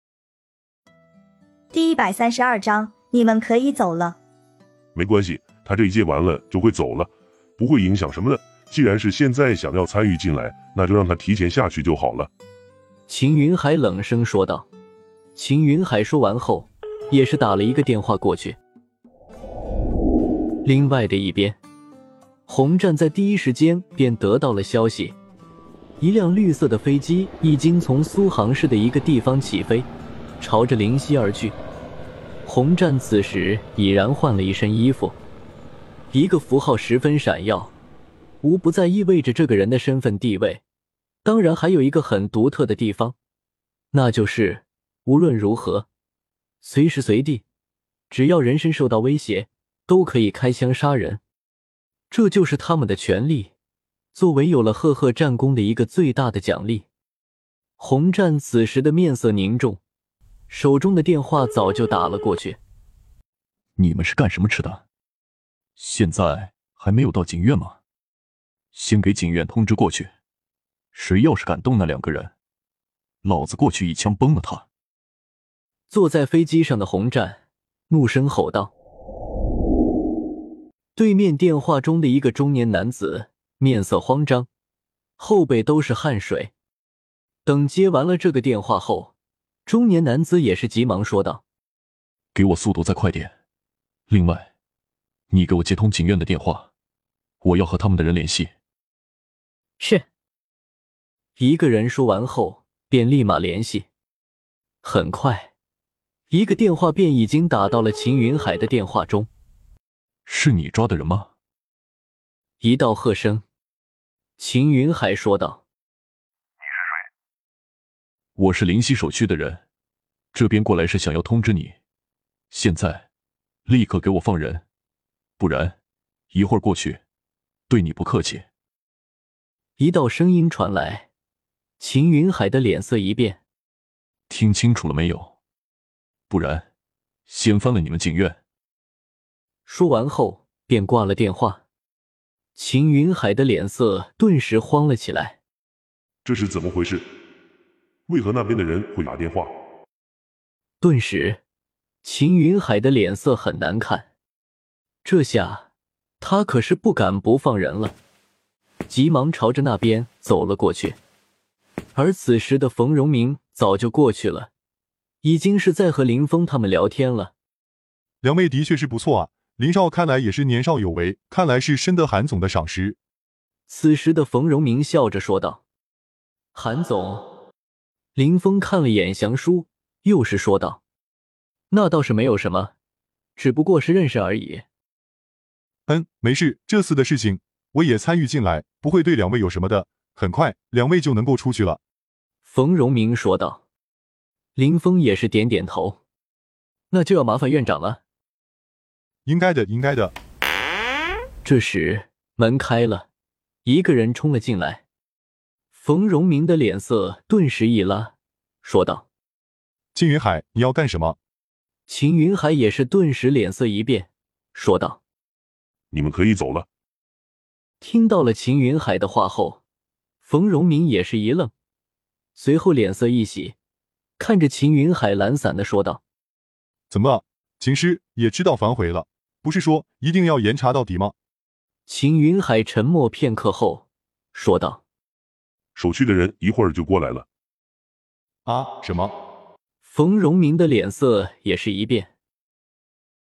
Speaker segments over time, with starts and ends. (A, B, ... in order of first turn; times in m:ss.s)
0:01.7-0:04.2 A
0:05.0-0:12.3 B
0:13.1-0:14.7 C
0:15.4-0:18.6 C
0:20.6-0:21.6 C
0:22.5-0:25.2 C
0:26.0-0:29.9 C
0:30.4-0:31.6 C
0:32.4-0:35.2 C
0:36.1-0:37.7 C
0:38.4-0:40.6 C
0:41.2-0:43.2 C
0:43.9-0:45.9 C
0:46.6-0:47.4 C
0:48.1-0:51.2 C
0:52.1-0:53.5 C
0:54.1-0:56.9 C
0:57.8-0:59.8 C
1:00.5-1:02.6 C
1:03.8-1:04.8 D
1:05.8-1:07.8 D
1:08.7-1:10.1 D
1:11.0-1:12.3 D
1:13.2-1:14.6 D
1:15.9-1:18.7 C
1:21.0-1:24.5 C
1:25.2-1:26.5 C
1:27.4-1:29.1 C
1:29.7-1:31.4 C
1:32.3-1:33.3 D
1:34.1-1:34.5 D
1:35.3-1:36.7 D
1:37.4-1:38.5 D
1:39.8-1:40.1 C
1:41.4-1:43.9 C
1:44.8-1:45.5 C
1:46.3-1:49.3 C
1:50.3-1:51.3 D
1:52.6-1:53.4 C
1:54.4-1:55.6 C
1:58.4-1:59.6 D
2:00.3-2:01.7 D
2:02.5-2:03.1 D
2:03.7-2:04.6 D
2:05.4-2:05.8 D
2:06.3-2:07.0 D
2:07.7-2:08.4 D
2:09.8-2:11.1 C
2:11.8-2:13.4 C
2:14.3-2:15.3 D
2:16.3-2:16.6 D
2:17.3-2:18.4 D
2:19.7-2:21.6 C
2:22.6-2:25.4 C
2:26.2-2:27.0 B
2:28.1-2:29.5 B
2:30.8-2:31.4 C
2:32.0-2:34.1 C
2:35.0-2:35.7 C
2:36.2-2:38.0 C
2:38.9-2:41.0 C
2:42.0-2:44.5 C
2:45.2-2:47.3 C
2:48.2-2:53.0 E
2:53.7-2:55.6 C
2:56.5-2:57.3 C
2:58.2-3:00.8 C
3:01.7-3:02.7 C
3:03.4-3:04.6 C
3:05.9-3:11.8 E
3:12.4-3:13.6 C
3:14.6-3:16.0 C
3:16.9-3:18.0 C
3:19.2-3:20.1 E
3:21.4-3:23.1 C
3:23.6-3:24.8 C
3:25.7-3:29.0 C
3:30.0-3:31.2 E
3:31.9-3:35.0 C
3:35.9-3:36.7 B
3:37.8-3:39.6 C
3:40.2-3:41.5 C
3:42.4-3:43.6 C
3:44.2-3:46.0 C
3:46.9-3:51.2 E
3:51.9-3:54.8 C
3:55.8-3:57.3 B
3:58.5-3:59.1 E
3:59.8-4:02.1 C